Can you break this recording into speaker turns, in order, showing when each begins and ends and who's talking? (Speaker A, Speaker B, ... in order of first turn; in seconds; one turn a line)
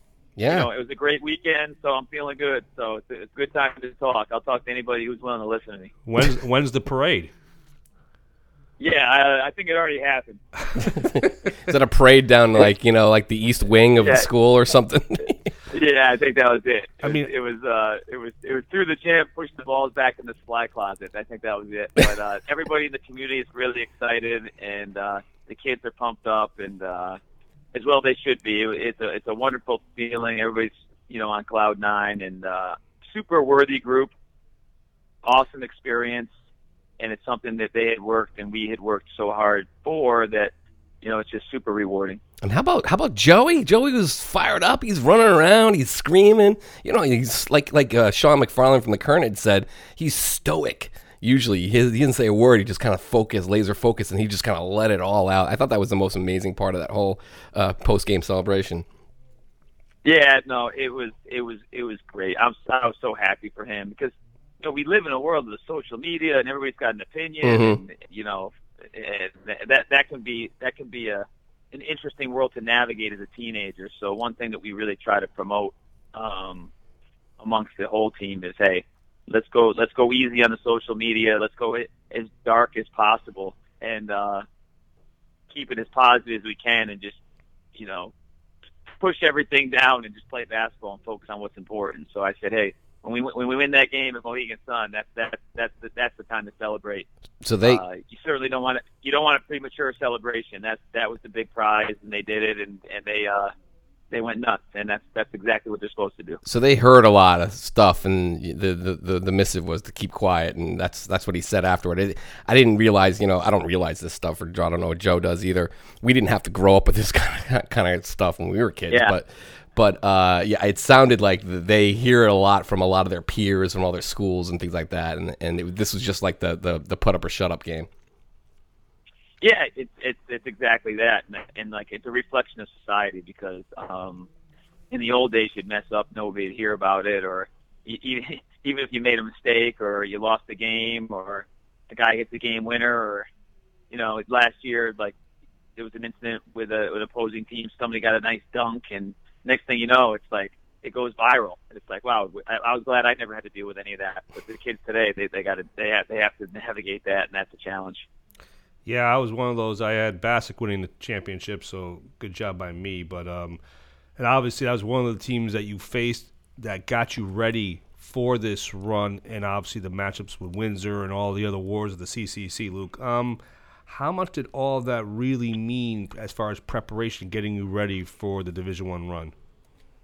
Speaker A: 0.4-0.7
Speaker B: 0.5-5.9
Speaker C: 6.0-7.3
Speaker B: 8.8-10.4
Speaker A: 10.9-15.5
Speaker B: 14.0-14.3
Speaker B: 15.7-27.2
Speaker C: 17.0-17.3
Speaker B: 27.7-34.1
Speaker B: 35.2-36.3
Speaker B: 37.0-42.2
Speaker A: 42.4-58.8
Speaker B: 60.0-76.7
Speaker A: 67.4-67.8
Speaker B: 77.4-84.4
Speaker B: 85.5-87.2
Speaker B: 87.7-88.1
Speaker B: 89.0-97.1
Speaker A: 97.4-97.8
Speaker B: 97.6-103.5
Speaker B: 104.1-106.4
Speaker A: 106.4-127.9
Speaker B: 118.9-119.1
Speaker B: 129.4-134.3
Speaker B: 134.9-143.3
Speaker B: 143.9-145.1
Speaker B: 145.8-158.1
Speaker C: 158.8-163.6
Speaker C: 164.2-179.3